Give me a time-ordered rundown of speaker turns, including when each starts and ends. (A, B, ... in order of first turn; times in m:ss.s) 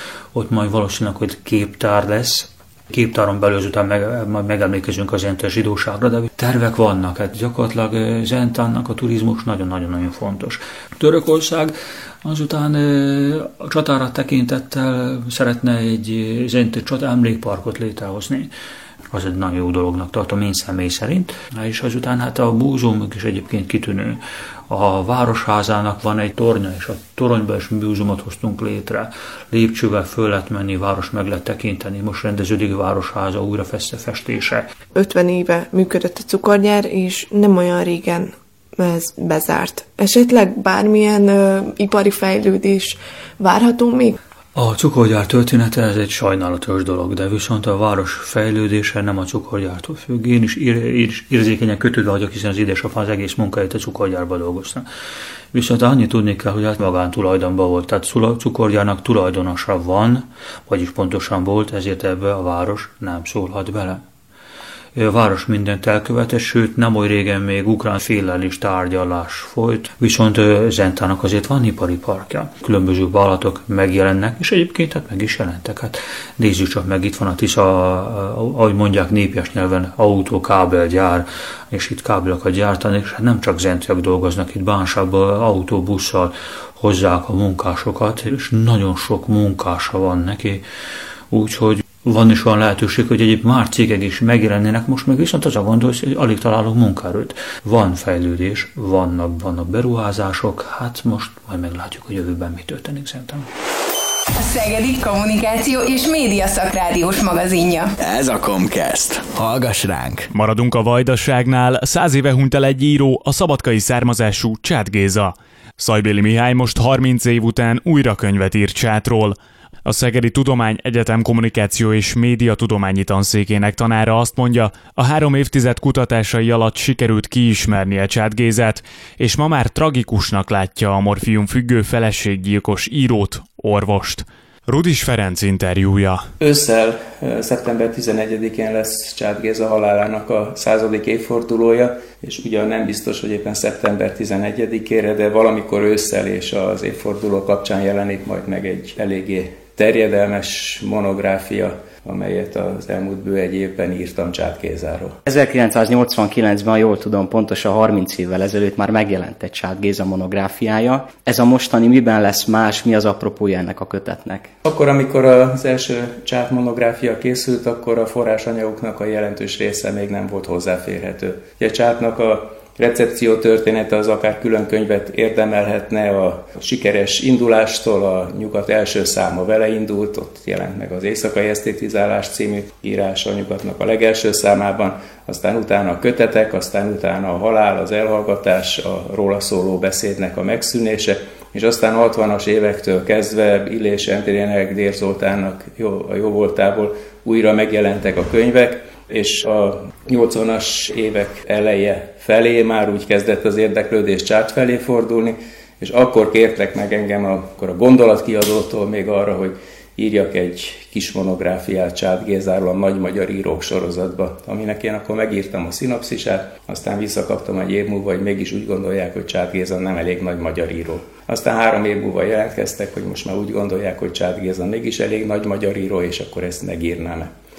0:00.3-0:18.5 A
0:19.1-0:34.8 A
0:34.9-0:44.2 B
0:44.6-0:54.9 A
0:55.5-1:04.0 A
1:05.0-1:30.6 A
1:31.3-1:43.5 A
1:44.4-1:47.9 C
1:48.0-1:50.3 D
1:50.3-2:16.2 E
2:16.4-2:35.2 F
2:35.3-2:44.5 G
2:44.6-3:47.3 F